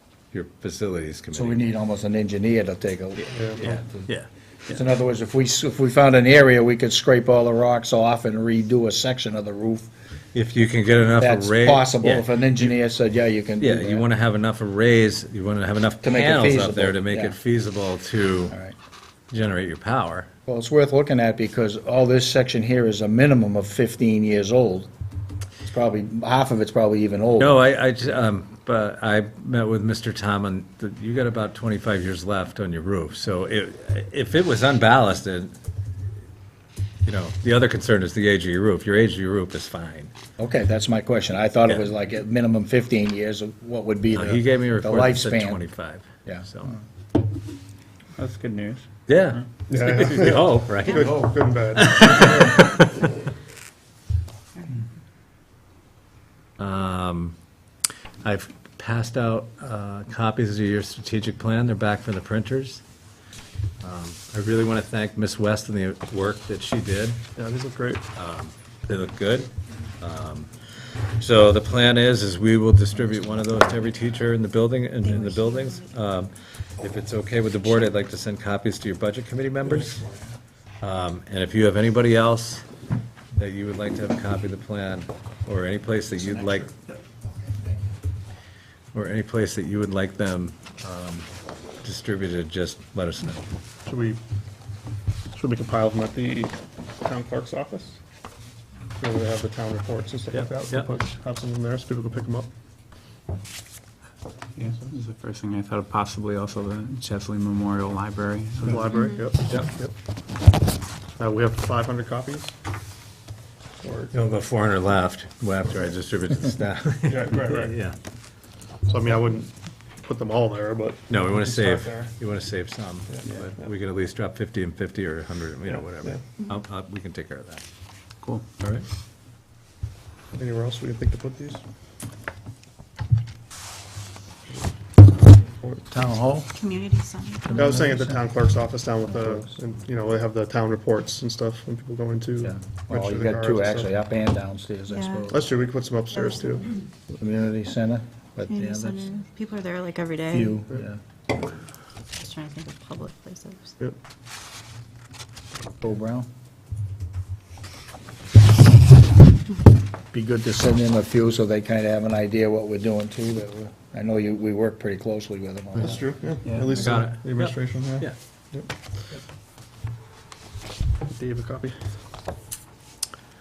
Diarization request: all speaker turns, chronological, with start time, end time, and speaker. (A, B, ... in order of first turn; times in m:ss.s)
0:00.3-0:01.6 A
0:01.3-0:04.1 B
0:03.2-0:04.8 A
0:04.7-0:09.9 B
0:10.3-0:12.7 A
0:11.2-0:14.0 B
0:13.6-0:18.6 A
0:16.0-0:17.4 B
0:19.3-0:20.3 A
0:20.5-0:24.9 B
0:25.6-0:27.6 B
0:27.4-0:35.6 A
0:37.1-0:40.1 A
0:40.4-0:45.6 B
0:44.1-0:46.8 A
0:46.2-0:46.8 B
0:48.2-0:49.4 C
0:49.1-0:53.0 A
0:49.7-0:52.6 D
0:56.6-0:57.4 A
0:58.2-1:02.8 A
1:03.8-1:07.2 A
1:07.4-1:08.0 D
1:08.2-1:10.5 A
1:11.2-1:20.1 A
1:15.2-1:15.8 E
1:20.8-1:22.6 A
1:23.3-1:26.7 A
1:28.9-1:31.3 A
1:31.8-1:33.4 A
1:33.9-1:34.2 D
1:35.4-1:38.0 D
1:39.0-1:42.5 D
1:40.3-1:40.9 A
1:44.6-1:48.9 C
1:48.6-1:49.9 D
1:48.9-1:49.2 E
1:51.2-1:52.5 D
1:53.8-1:54.3 D
1:54.1-1:58.0 A
1:57.0-1:57.8 D
1:58.9-2:02.1 D
2:01.1-2:07.6 A
2:03.1-2:03.3 D
2:05.7-2:06.2 D
2:08.6-2:08.9 A
2:10.4-2:11.6 D
2:15.4-2:15.8 D
2:15.9-2:16.5 B
2:16.6-2:17.9 E
2:17.5-2:18.2 B
2:17.6-2:23.9 D
2:22.4-2:25.5 B
2:24.9-2:25.2 E
2:25.3-2:26.8 D
2:27.1-2:29.1 B
2:28.5-2:30.6 E
2:30.3-2:31.0 B
2:32.2-2:33.7 E
2:35.8-2:36.3 B
2:40.1-2:46.1 B
2:45.8-2:48.7 D
2:46.4-2:46.8 C
2:46.7-2:48.2 A
2:51.1-2:51.8 D